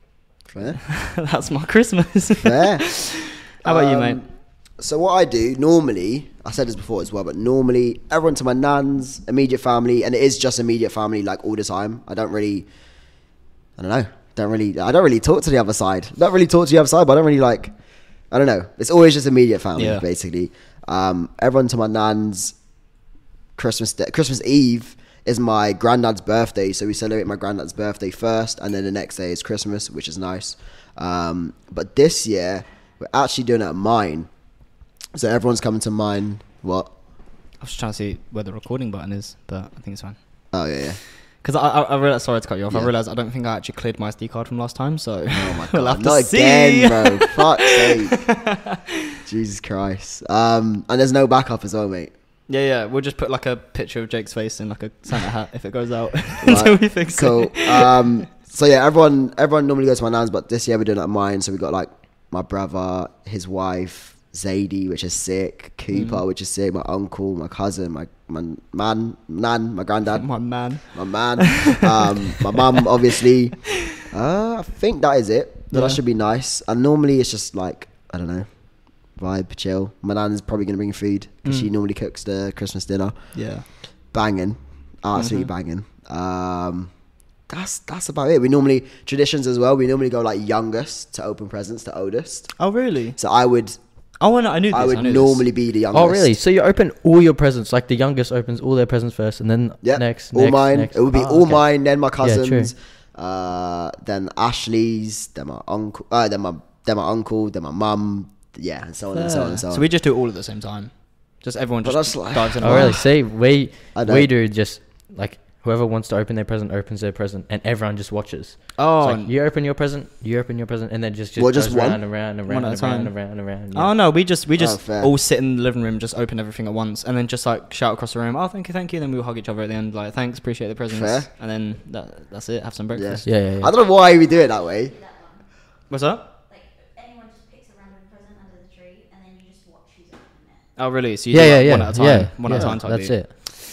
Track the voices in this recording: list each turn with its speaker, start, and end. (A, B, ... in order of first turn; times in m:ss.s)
0:00.5-0:00.8 A
0:00.9-0:04.2 B
0:02.4-0:02.8 A
0:03.6-0:12.7 A
0:13.8-0:17.7 A
0:18.3-0:22.6 A
0:19.8-0:20.0 B
0:23.6-0:34.3 A
0:35.1-0:36.9 A
0:37.6-0:40.2 B
0:40.5-0:41.0 A
0:41.4-0:49.0 B
0:45.3-0:48.2 A
0:49.2-0:52.1 A
0:52.5-0:58.2 B
0:56.4-1:10.3 A
1:05.9-1:06.2 B
1:10.1-1:12.6 B
1:10.9-1:18.5 A
1:15.7-1:16.0 B
1:19.2-1:23.3 A
1:23.4-1:23.6 B
1:24.1-1:26.9 A
1:25.2-1:25.5 B
1:27.5-1:32.6 A
1:32.6-1:33.2 B
1:33.2-1:33.8 A
1:34.2-1:35.4 B
1:34.7-1:36.3 A
1:35.9-1:41.6 C
1:39.8-1:49.9 A
1:42.2-1:42.7 C
1:49.1-1:53.0 B
1:51.8-1:53.0 A
1:52.6-2:03.9 C
1:53.9-1:54.3 A
1:58.8-1:59.3 B
2:01.4-2:02.0 A
2:02.5-2:13.3 B
2:04.6-2:05.1 A
2:10.9-2:11.3 A
2:12.9-2:14.9 A
2:13.2-2:13.7 C
2:14.0-2:15.5 D
2:15.9-2:16.2 B
2:16.5-2:20.7 D
2:20.8-2:23.2 B
2:21.3-2:23.3 C
2:22.5-2:22.8 A